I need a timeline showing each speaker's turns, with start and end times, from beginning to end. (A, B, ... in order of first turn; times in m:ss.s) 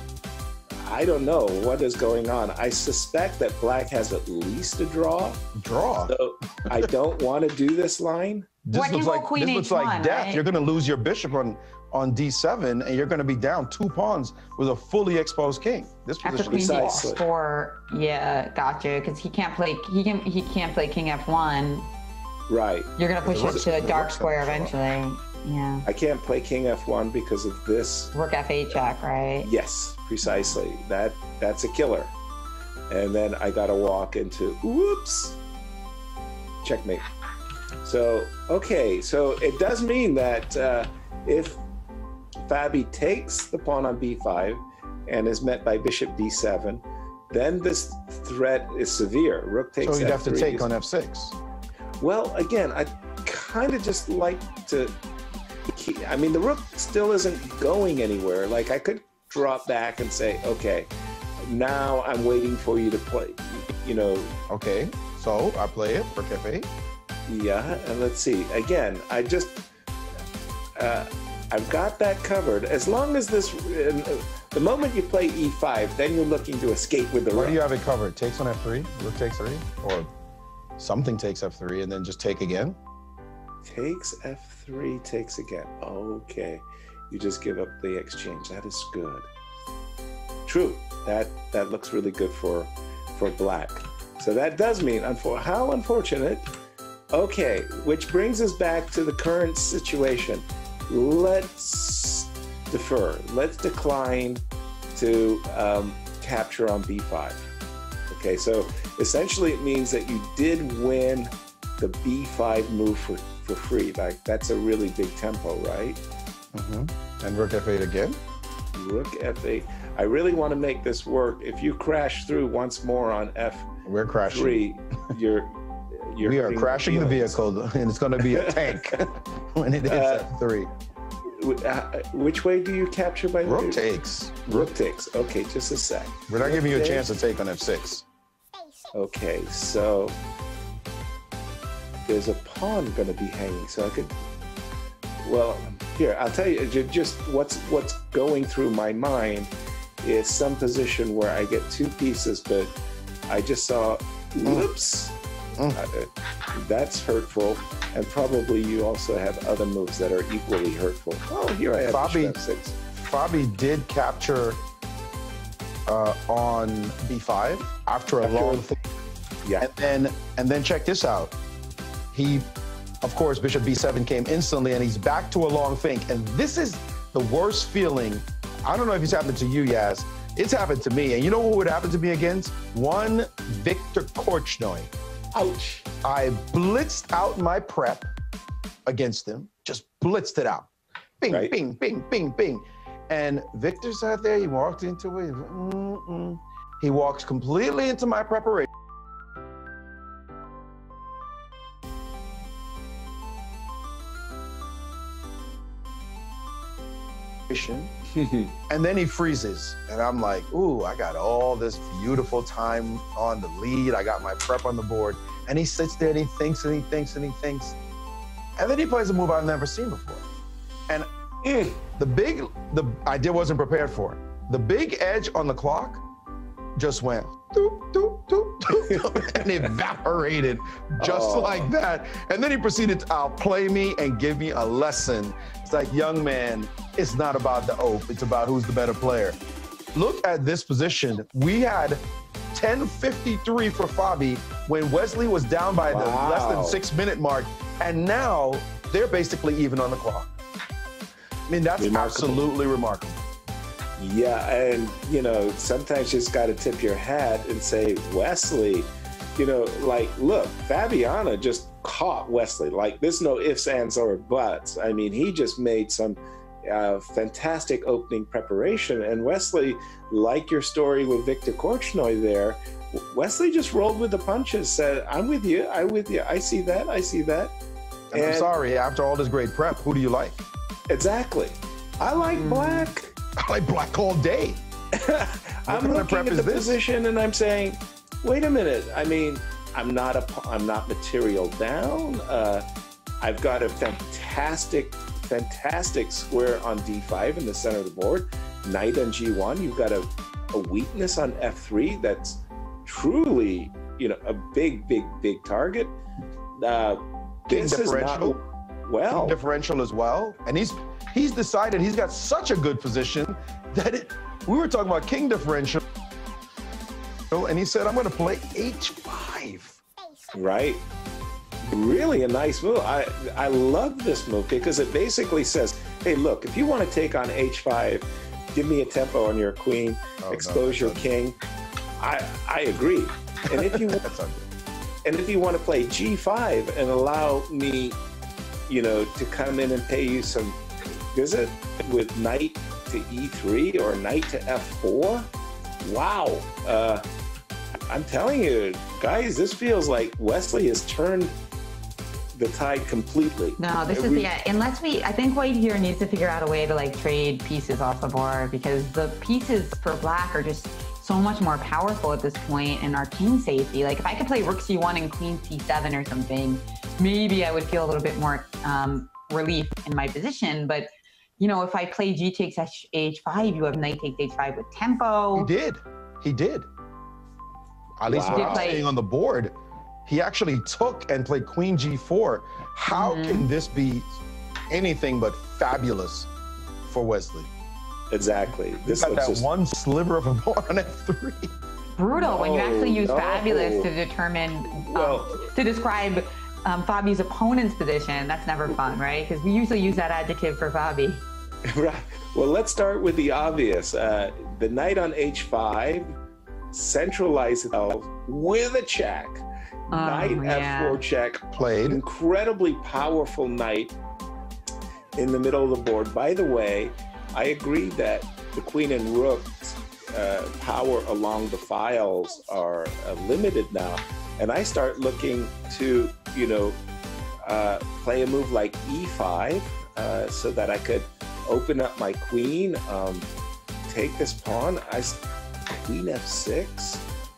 0:00.8-0:05.4 A
0:05.5-0:06.1 B
0:06.0-0:08.5 A
0:08.6-0:17.0 B
0:08.7-0:10.4 C
0:16.2-0:21.9 C
0:16.5-0:17.2 A
0:22.5-0:22.9 A
0:23.0-0:25.8 C
0:23.2-0:24.7 B
0:25.8-0:28.1 A
0:28.1-0:29.5 C
0:29.4-0:32.1 A
0:30.2-0:30.6 C
0:32.9-0:35.4 A
0:36.6-0:37.0 A
0:37.8-0:41.6 A
0:42.4-0:50.7 A
0:49.8-0:51.4 B
0:52.0-0:55.0 A
0:55.7-1:00.9 A
1:01.4-1:04.3 A
1:04.5-1:06.7 B
1:07.3-1:09.6 A
1:10.8-1:17.6 A
1:17.3-1:20.1 B
1:20.8-1:22.8 B
1:23.6-1:29.3 A
1:30.4-1:36.4 A
1:37.1-1:44.4 A
1:44.9-1:47.5 A
1:48.1-1:56.0 A
1:56.5-1:58.2 B
1:58.7-2:03.7 A
2:03.8-2:04.6 B
2:04.3-2:07.4 A
2:06.2-2:10.7 B
2:08.2-2:09.0 A
2:09.8-2:10.2 A
2:11.3-2:13.8 A
2:13.4-2:14.7 B
2:14.5-2:17.1 A
2:16.3-2:18.0 B
2:18.9-2:20.2 A
2:22.0-2:24.1 A
2:25.2-2:29.5 A
2:30.0-2:32.7 A
2:33.3-2:35.2 A
2:35.7-2:42.8 A
2:41.7-2:42.4 B
2:42.9-2:44.6 B
2:45.9-2:48.9 B
2:48.2-2:48.6 A
2:49.6-2:51.3 B
2:52.1-2:52.4 B
2:53.0-3:04.9 B
3:05.3-3:05.9 A
3:06.0-3:08.1 B
3:08.8-3:18.7 B
3:11.3-3:11.5 A
3:27.5-3:27.9 B
3:28.2-3:28.5 A
3:28.7-3:37.8 B
3:38.6-3:40.2 B
3:41.4-3:41.8 A
3:42.0-3:46.0 B
3:46.8-3:59.4 B
3:48.8-3:49.7 A
3:51.0-3:51.7 A
3:59.9-4:10.3 B
4:05.9-4:06.8 A
4:11.5-4:13.2 B
4:11.8-4:12.5 A
4:14.0-4:37.5 A
4:38.1-4:40.4 B
4:38.1-4:38.5 A
4:40.9-4:43.1 A
4:42.3-4:42.9 C
4:43.4-4:44.6 B
4:44.9-4:52.6 A
4:45.7-4:46.8 B
4:53.2-5:05.9 A
5:06.6-5:09.4 A
5:07.5-5:08.4 B
5:09.1-5:15.8 B
5:17.3-5:19.8 B
5:20.3-5:20.8 A
5:21.6-5:31.4 A
5:30.2-5:31.1 B
5:32.0-5:34.0 A
5:33.5-5:34.5 B
5:35.0-5:38.0 A
5:38.7-5:40.6 A
5:41.1-5:45.3 A
5:45.8-5:47.0 A
5:47.9-5:51.3 A
5:52.3-5:54.3 A
5:53.6-6:10.9 C
6:11.4-6:15.5 C
6:15.3-6:16.7 B
6:18.0-6:19.5 B
6:18.1-6:18.8 A
6:18.3-6:18.9 C
6:20.0-6:24.1 B
6:22.9-6:23.5 C
6:24.7-6:26.3 B
6:26.8-6:27.5 B
6:28.1-6:29.4 A
6:28.9-6:31.5 B
6:32.0-6:41.2 C
6:32.2-6:33.9 A
6:34.8-6:35.4 A
6:41.6-6:46.2 A
6:46.7-6:54.0 A
6:49.9-6:51.0 C
6:51.5-6:52.0 B
6:55.2-7:06.8 A
7:07.4-7:13.3 A
7:13.9-7:17.0 A